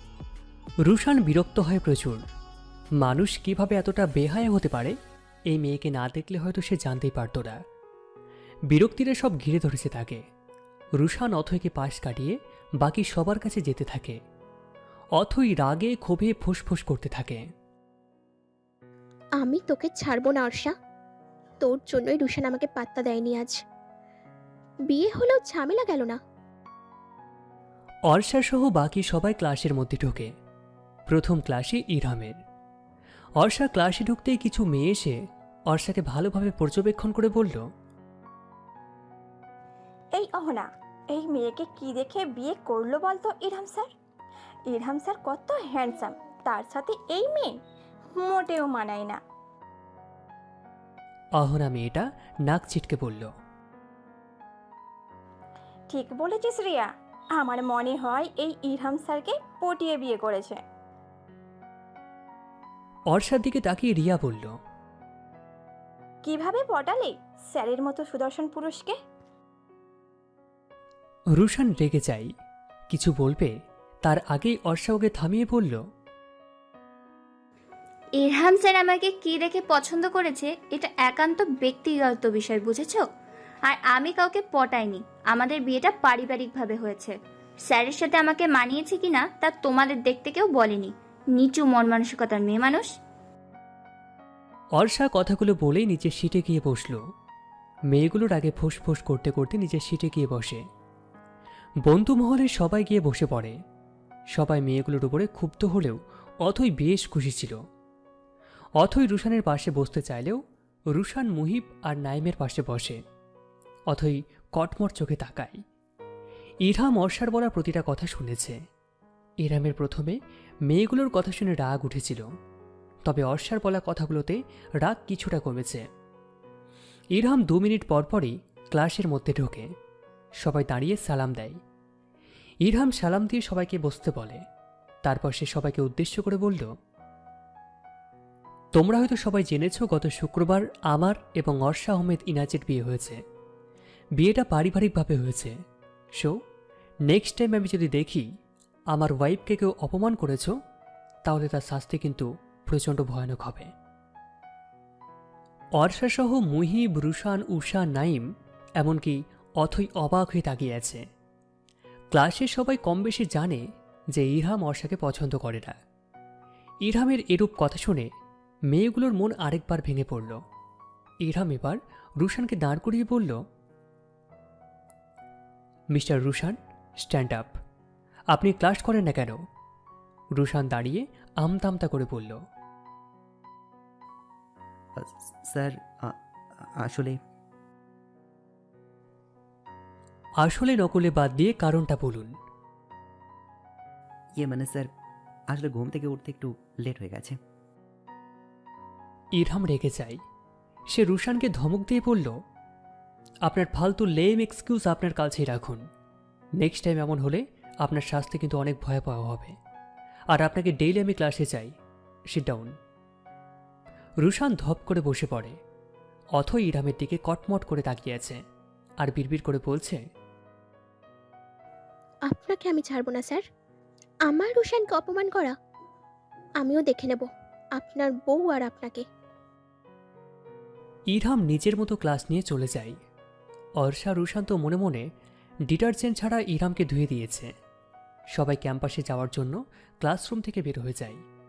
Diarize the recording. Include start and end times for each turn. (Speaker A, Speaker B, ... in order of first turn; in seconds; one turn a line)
Speaker A: 0.8-2.2
Speaker A: 3.0-4.9
Speaker A: 5.5-7.6
Speaker A: 8.7-10.2
Speaker A: 11.0-14.2
Speaker A: 15.2-17.4
Speaker B: 19.4-20.7
Speaker B: 21.6-23.6
Speaker B: 24.9-26.2
Speaker A: 28.1-30.3
Speaker A: 31.1-32.4
Speaker A: 33.4-35.1
Speaker A: 35.7-37.6
Speaker C: 40.1-43.9
Speaker C: 44.7-47.5
Speaker C: 48.1-49.2
Speaker A: 51.4-53.3
Speaker C: 55.9-60.6
Speaker A: 63.1-64.5
Speaker C: 66.2-69.0
Speaker A: 71.3-72.3
Speaker A: 72.9-73.5
Speaker A: 74.0-75.8
Speaker D: 78.2-83.0
Speaker D: 83.7-92.9
Speaker A: 94.8-97.0
Speaker A: 97.9-100.6
Speaker A: 101.8-103.5
Speaker A: 104.3-107.5
Speaker A: 108.8-110.4
Speaker A: 110.9-113.0
Speaker A: 113.9-115.6
Speaker A: 116.6-118.6
Speaker A: 119.4-122.2
Speaker A: 123.0-125.8
Speaker A: 127.2-129.7
Speaker A: 130.4-131.6
Speaker A: 132.6-134.4
Speaker A: 135.0-136.7
Speaker A: 138.8-143.2
Speaker A: 144.2-145.5
Speaker A: 147.1-148.2
Speaker A: 148.9-150.5
Speaker A: 151.2-153.7
Speaker A: 155.8-158.2
Speaker A: 158.8-161.0
Speaker A: 162.1-163.6
Speaker A: 164.1-165.8
Speaker A: 166.8-168.1
Speaker A: 168.7-170.4
Speaker A: 171.2-173.4
Speaker A: 175.9-177.5
Speaker A: 178.3-179.4
Speaker A: 180.3-182.4
Speaker E: 185.0-186.2
Speaker E: 186.8-187.2
Speaker A: 190.4-192.3
Speaker E: 194.4-194.9
Speaker E: 195.5-197.4
Speaker A: 199.4-200.2
Speaker A: 200.9-202.3
Speaker A: 203.4-205.8
Speaker A: 206.6-209.6
Speaker A: 210.3-211.7
Speaker A: 212.3-212.7
Speaker A: 214.2-215.6
Speaker A: 216.4-218.4
Speaker A: 219.0-220.0
Speaker B: 222.3-223.4
Speaker B: 224.3-225.5
Speaker B: 226.6-229.0
Speaker A: 231.1-232.9
Speaker A: 233.8-235.1
Speaker A: 235.7-237.5
Speaker A: 238.3-241.2